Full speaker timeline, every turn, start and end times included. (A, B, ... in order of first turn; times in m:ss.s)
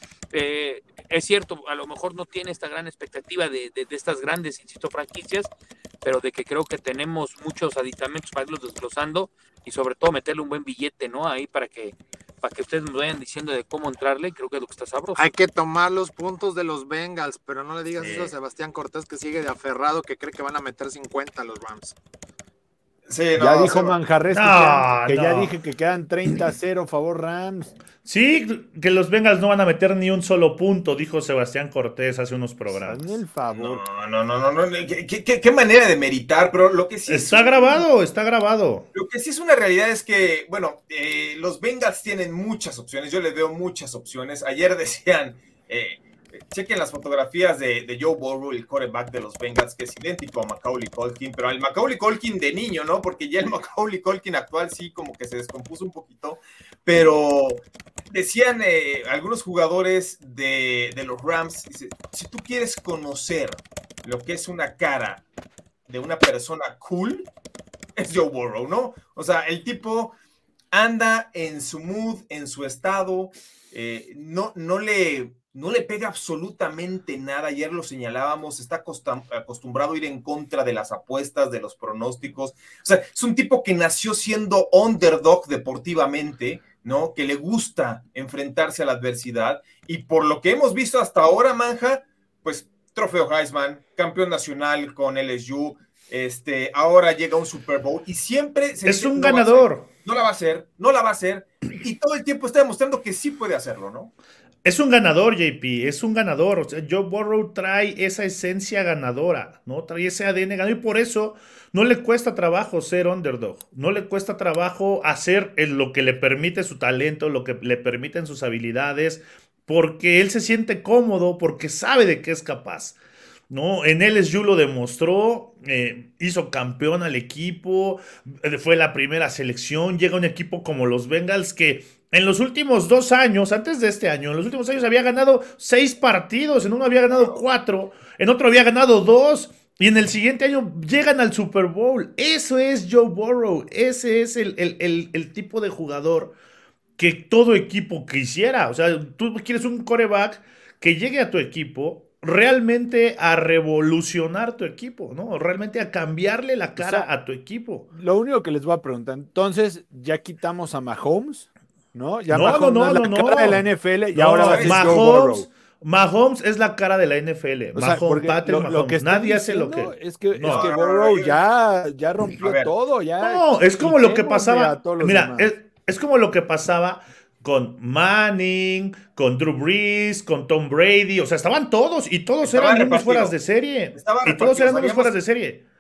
0:00.3-0:05.5 A
0:06.0-0:15.3 A
0:15.2-0:22.0 B
0:18.0-0:18.3 C
0:23.1-0:24.0 C
0:23.4-0:27.8 D
0:24.3-0:25.5 E
0:28.0-0:33.2 E
0:32.7-0:33.8 D
0:33.6-0:37.9 C
0:37.1-0:38.9 E
0:38.9-1:05.2 C
1:05.9-1:07.3 C
1:08.0-1:10.2 C
1:10.7-1:44.1 C
1:38.9-1:39.9 E
1:44.6-2:03.0 E
2:03.5-2:26.4 E
2:17.1-2:17.4 C
2:27.0-2:37.9 E
2:36.8-2:37.1 D
2:37.9-2:45.5 D
2:42.3-2:50.7 E
2:44.4-2:45.1 C
2:47.7-2:55.5 D
2:50.5-2:51.4 C
2:52.4-2:52.7 C
2:53.2-3:05.6 E
3:02.4-3:03.4 C
3:03.9-3:05.2 C